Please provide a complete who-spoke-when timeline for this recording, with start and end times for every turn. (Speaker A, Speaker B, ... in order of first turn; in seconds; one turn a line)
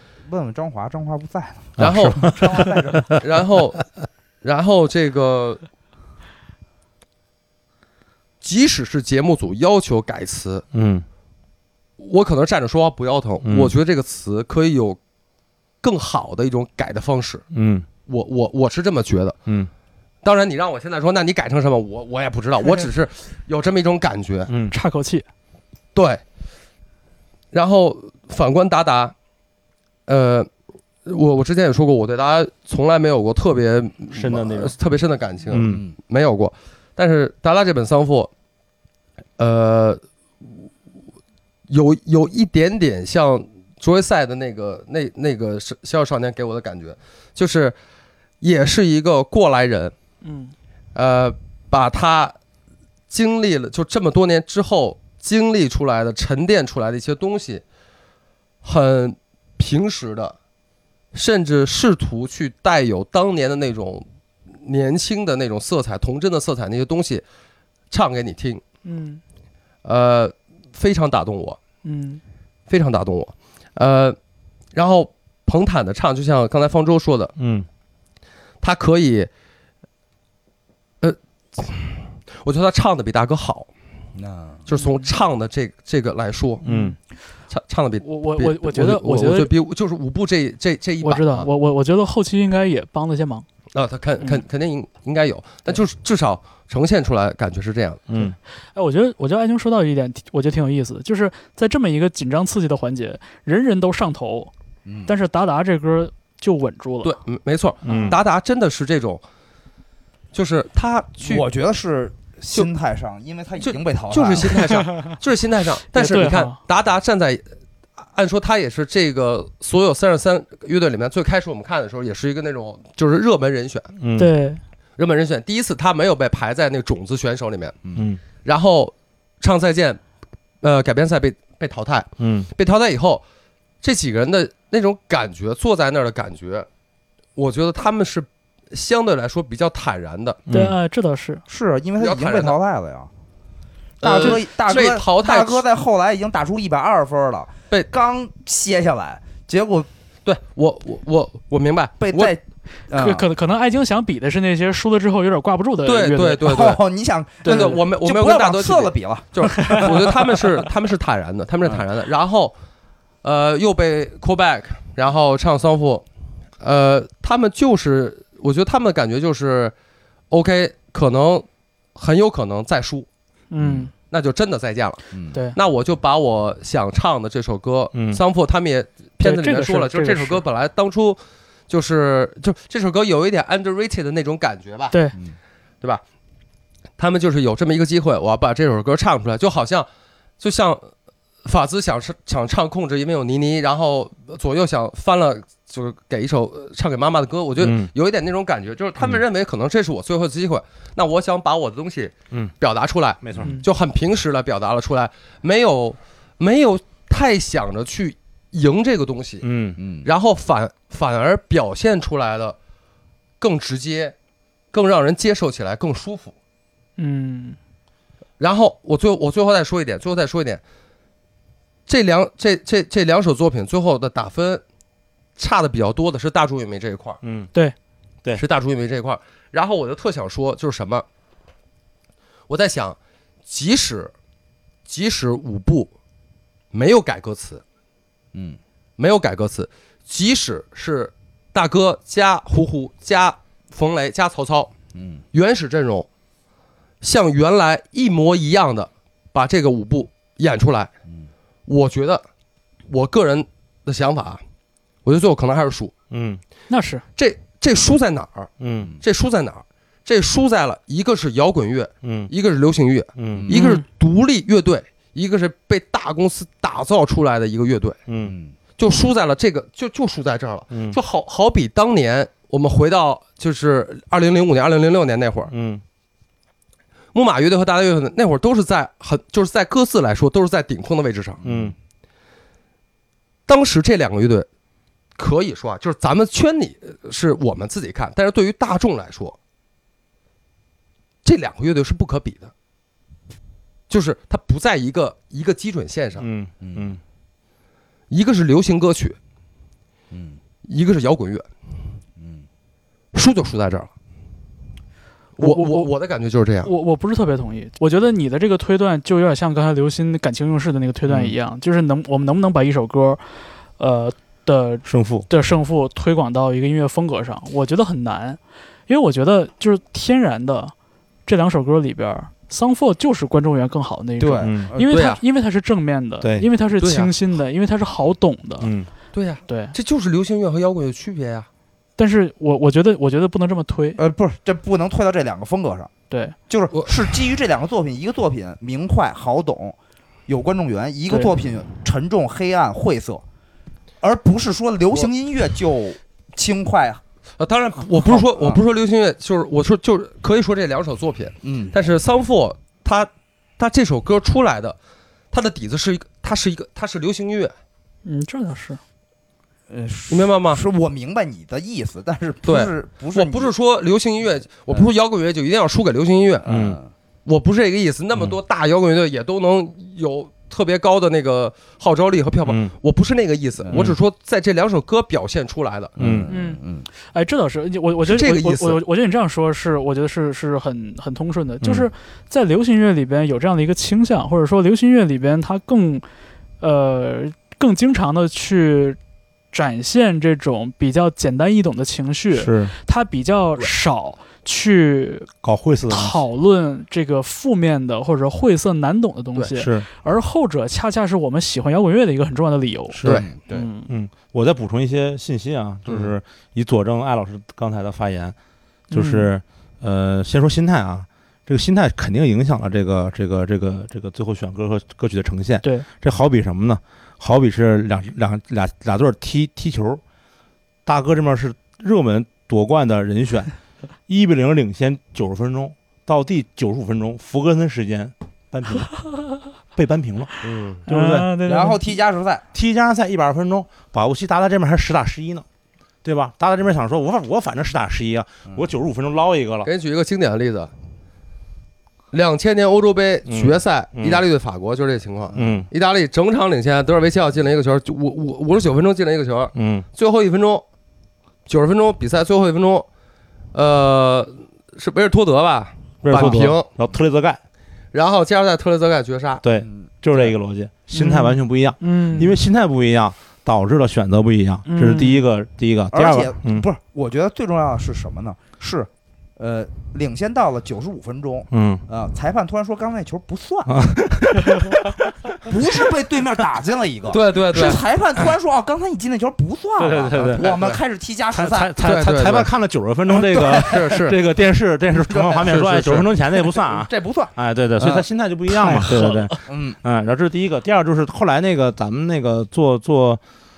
Speaker A: 0.2-3.2
Speaker B: 1.8-3.0
Speaker C: 1.8-2.3
Speaker C: 3.2-3.8
Speaker C: 4.4-5.6
Speaker C: 8.4-10.7
Speaker B: 10.7-11.1
Speaker C: 12.0-15.0
Speaker B: 13.4-13.7
Speaker C: 15.8-17.4
Speaker B: 17.5-17.9
Speaker C: 18.1-19.4
Speaker C: 20.2-24.5
Speaker B: 24.5-24.8
Speaker D: 24.7-25.3
Speaker C: 25.9-26.2
Speaker C: 27.5-29.1
Speaker C: 30.1-30.5
Speaker C: 31.1-38.3
Speaker B: 34.1-34.8
Speaker B: 35.5-35.8
Speaker A: 35.7-36.0
Speaker C: 39.4-40.0
Speaker C: 41.7-47.8
Speaker C: 48.4-49.9
Speaker D: 50.2-50.5
Speaker C: 50.9-52.4
Speaker C: 53.1-57.6
Speaker C: 58.6-60.4
Speaker C: 61.1-64.1
Speaker C: 64.6-67.2
Speaker C: 67.9-68.6
Speaker D: 68.8-69.2
Speaker C: 69.8-71.6
Speaker D: 71.8-72.2
Speaker C: 72.7-74.2
Speaker C: 74.7-77.3
Speaker B: 77.4-77.7
Speaker C: 78.6-79.3
Speaker C: 81.0-83.7
Speaker A: 84.2-84.6
Speaker C: 84.7-86.6
Speaker D: 84.8-85.0
Speaker D: 86.6-87.0
Speaker B: 86.7-87.0
Speaker C: 87.5-91.5
Speaker D: 88.0-89.5
Speaker D: 91.0-93.5
Speaker C: 93.7-98.0
Speaker B: 98.1-98.4
Speaker D: 98.2-104.5
Speaker A: 104.9-105.1
Speaker D: 105.1-107.1
Speaker C: 107.0-109.2
Speaker D: 107.9-108.2
Speaker B: 107.9-108.2
Speaker C: 110.3-111.5
Speaker A: 111.2-114.7
Speaker C: 113.6-117.4
Speaker D: 115.9-116.6
Speaker C: 118.1-123.9
Speaker B: 124.0-124.3
Speaker D: 124.2-124.6
Speaker C: 125.0-127.8
Speaker B: 128.0-128.2
Speaker C: 128.4-130.0
Speaker C: 130.6-133.2
Speaker B: 132.2-132.5
Speaker C: 133.8-136.7
Speaker C: 137.4-140.4
Speaker B: 140.5-140.8
Speaker D: 140.5-141.4
Speaker A: 141.5-143.1
Speaker C: 142.0-142.6
Speaker C: 144.0-145.6
Speaker A: 144.0-149.9
Speaker C: 150.2-152.3
Speaker A: 152.0-153.3
Speaker D: 152.9-156.5
Speaker C: 155.8-156.8
Speaker A: 156.4-160.5
Speaker D: 157.4-157.8
Speaker C: 157.5-162.6
Speaker C: 163.2-166.1
Speaker C: 166.6-169.8
Speaker C: 170.3-173.1
Speaker D: 173.5-173.9
Speaker A: 173.6-173.9
Speaker C: 174.1-175.0
Speaker C: 175.6-185.0
Speaker B: 177.9-178.2
Speaker D: 179.2-180.4
Speaker D: 184.9-185.2
Speaker C: 187.0-189.9
Speaker C: 190.4-190.9
Speaker C: 191.4-209.5
Speaker B: 197.6-197.9
Speaker B: 203.2-203.5
Speaker D: 203.4-203.7
Speaker B: 209.4-209.8
Speaker A: 209.8-210.1
Speaker C: 210.0-212.6
Speaker C: 213.4-214.2
Speaker C: 214.7-216.3
Speaker D: 217.0-217.6
Speaker C: 218.4-220.6
Speaker C: 221.9-224.6
Speaker C: 225.4-227.2
Speaker B: 227.2-227.5
Speaker C: 228.3-231.1
Speaker C: 232.5-234.1
Speaker C: 234.9-235.9
Speaker C: 236.7-237.6
Speaker A: 238.3-238.6
Speaker C: 239.0-244.7
Speaker A: 244.9-245.2
Speaker C: 245.3-246.1
Speaker C: 247.0-250.9
Speaker C: 251.7-252.2
Speaker C: 252.9-254.4
Speaker C: 255.0-255.9
Speaker B: 256.1-256.4
Speaker D: 256.7-257.0
Speaker C: 257.2-268.0
Speaker B: 258.6-258.9
Speaker B: 262.0-262.3
Speaker B: 263.2-263.5
Speaker A: 263.3-263.6
Speaker D: 263.5-263.8
Speaker B: 268.1-268.4
Speaker A: 268.2-268.6
Speaker C: 268.8-275.5
Speaker B: 270.7-271.0
Speaker B: 275.5-275.8
Speaker C: 277.1-281.4
Speaker A: 281.4-281.8
Speaker B: 281.4-281.8
Speaker C: 283.5-284.5
Speaker C: 285.2-289.4
Speaker C: 291.2-292.5
Speaker C: 293.9-296.3
Speaker B: 296.2-297.0
Speaker A: 296.6-297.0
Speaker C: 298.1-299.2
Speaker A: 300.1-300.4
Speaker C: 300.6-301.5
Speaker A: 302.2-302.5
Speaker C: 303.1-303.9
Speaker C: 305.4-306.7
Speaker D: 305.4-305.9
Speaker D: 306.6-313.2
Speaker B: 311.1-311.4
Speaker D: 313.8-320.7
Speaker B: 314.9-315.3
Speaker D: 321.3-328.7
Speaker A: 324.2-324.9
Speaker B: 324.4-324.7
Speaker C: 324.9-325.2
Speaker B: 326.2-326.5
Speaker C: 326.8-327.1
Speaker B: 328.6-328.9
Speaker C: 329.1-331.5
Speaker D: 329.5-329.8
Speaker D: 332.0-334.0
Speaker A: 334.0-335.9
Speaker D: 336.1-336.4
Speaker A: 336.5-339.8
Speaker A: 340.3-343.2
Speaker A: 344.0-347.0
Speaker C: 347.4-354.8
Speaker A: 348.0-348.6
Speaker A: 351.4-351.8
Speaker C: 355.3-357.5
Speaker D: 358.1-358.8
Speaker A: 359.7-363.5
Speaker C: 360.1-360.6
Speaker C: 362.4-366.5
Speaker A: 366.4-366.9
Speaker B: 366.5-366.8
Speaker C: 367.3-376.0
Speaker B: 372.4-372.7
Speaker A: 373.6-373.9
Speaker B: 373.7-374.0
Speaker A: 376.0-376.9
Speaker B: 376.0-376.3
Speaker D: 376.3-386.1
Speaker C: 378.1-378.8
Speaker B: 381.6-381.9
Speaker D: 386.6-389.0
Speaker D: 389.5-395.3
Speaker B: 392.3-392.7
Speaker B: 395.4-396.2
Speaker D: 395.9-403.9
Speaker B: 399.5-399.9
Speaker B: 402.9-403.2
Speaker A: 403.1-403.7
Speaker B: 403.9-408.4
Speaker B: 408.9-420.0
Speaker D: 408.9-409.3
Speaker B: 420.9-423.5
Speaker B: 424.1-428.9
Speaker B: 429.8-430.3
Speaker C: 430.4-430.8
Speaker B: 430.9-431.3
Speaker D: 430.9-431.9
Speaker A: 431.5-432.4
Speaker B: 432.5-435.4
Speaker B: 436.0-439.7
Speaker C: 439.6-440.7
Speaker C: 442.1-450.6
Speaker B: 443.3-444.2
Speaker A: 445.3-445.7
Speaker B: 445.4-445.7
Speaker B: 449.6-449.9
Speaker C: 451.5-452.9
Speaker C: 453.5-456.7
Speaker B: 456.0-457.4
Speaker C: 457.9-459.4
Speaker B: 459.4-466.6
Speaker A: 459.6-459.9
Speaker D: 460.9-462.3
Speaker D: 464.7-465.2
Speaker A: 465.9-473.9
Speaker B: 471.5-471.8
Speaker B: 473.7-475.1
Speaker A: 475.4-481.7
Speaker C: 477.1-478.3
Speaker B: 479.8-480.4
Speaker C: 480.4-480.8
Speaker B: 481.3-493.2
Speaker C: 481.8-482.5
Speaker C: 483.2-484.1
Speaker A: 483.3-484.0
Speaker A: 484.9-489.8